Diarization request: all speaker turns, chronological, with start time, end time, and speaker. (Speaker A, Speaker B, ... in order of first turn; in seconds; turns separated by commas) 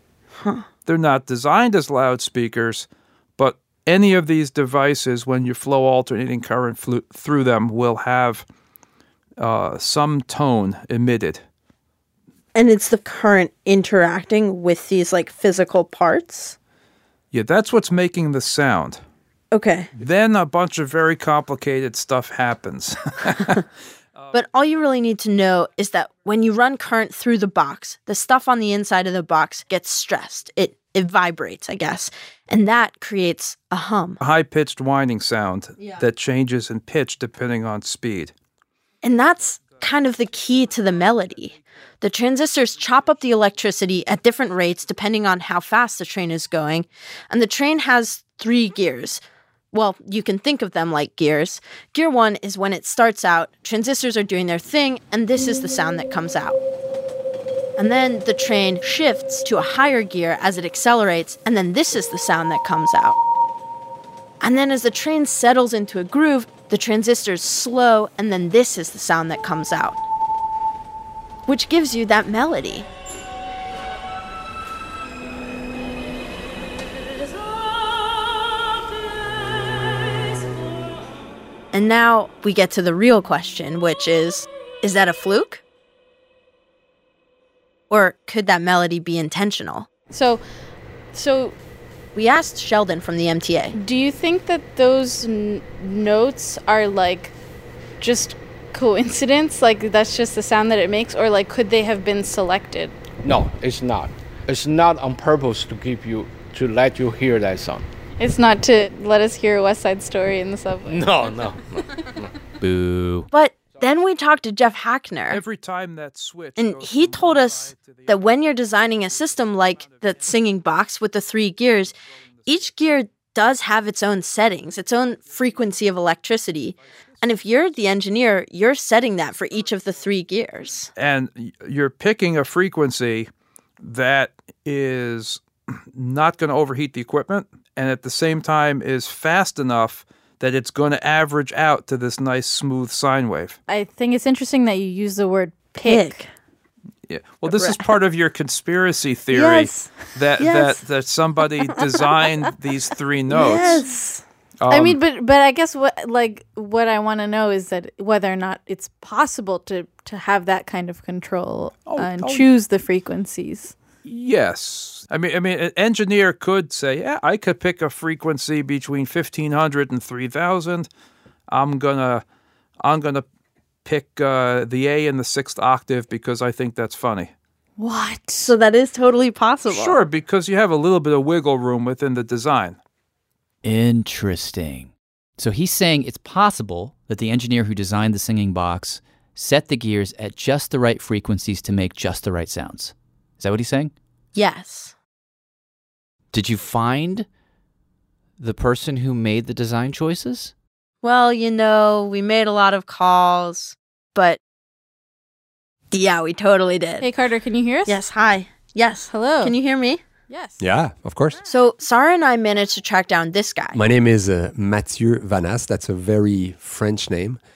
Speaker A: 0.3-0.6, Speaker B: 0.8-8.4, Speaker B: 9.4-11.4, Speaker A: 12.5-16.6, Speaker B: 17.3-19.0, Speaker A: 19.5-19.9, Speaker B: 20.0-23.6, Speaker A: 24.3-34.2, Speaker B: 34.2-38.3, Speaker A: 39.0-56.6, Speaker A: 57.8-63.2, Speaker A: 64.4-70.0, Speaker A: 71.5-72.9, Speaker A: 81.7-85.6, Speaker A: 87.9-89.9, Speaker C: 90.1-90.4, Speaker C: 91.1-91.5, Speaker A: 92.1-93.7, Speaker C: 93.7-97.3, Speaker C: 98.0-102.9, Speaker D: 103.2-107.8, Speaker C: 108.2-111.2, Speaker D: 110.9-111.6, Speaker E: 112.6-113.3, Speaker A: 113.3-115.4, Speaker B: 115.3-118.3, Speaker A: 116.6-121.9, Speaker A: 122.5-130.9, Speaker B: 130.9-133.3, Speaker B: 133.8-143.6, Speaker C: 143.7-146.1, Speaker A: 145.7-146.3, Speaker B: 147.1-153.8, Speaker A: 147.5-147.9, Speaker A: 149.3-150.8, Speaker A: 153.3-154.2, Speaker B: 154.6-155.0, Speaker C: 154.7-163.8, Speaker B: 161.8-162.4, Speaker B: 164.0-170.9, Speaker B: 171.5-172.2, Speaker B: 172.8-173.2, Speaker B: 173.8-177.3, Speaker C: 177.8-178.5, Speaker A: 178.4-180.0, Speaker B: 179.6-182.8, Speaker E: 183.6-193.9, Speaker A: 194.3-194.9, Speaker E: 196.3-197.3, Speaker E: 198.4-200.5, Speaker A: 201.0-204.4, Speaker A: 205.9-207.0, Speaker C: 207.0-208.0, Speaker A: 207.8-210.0, Speaker C: 209.1-209.5, Speaker C: 210.3-210.6, Speaker F: 210.6-211.4, Speaker A: 211.4-213.8, Speaker F: 213.7-217.4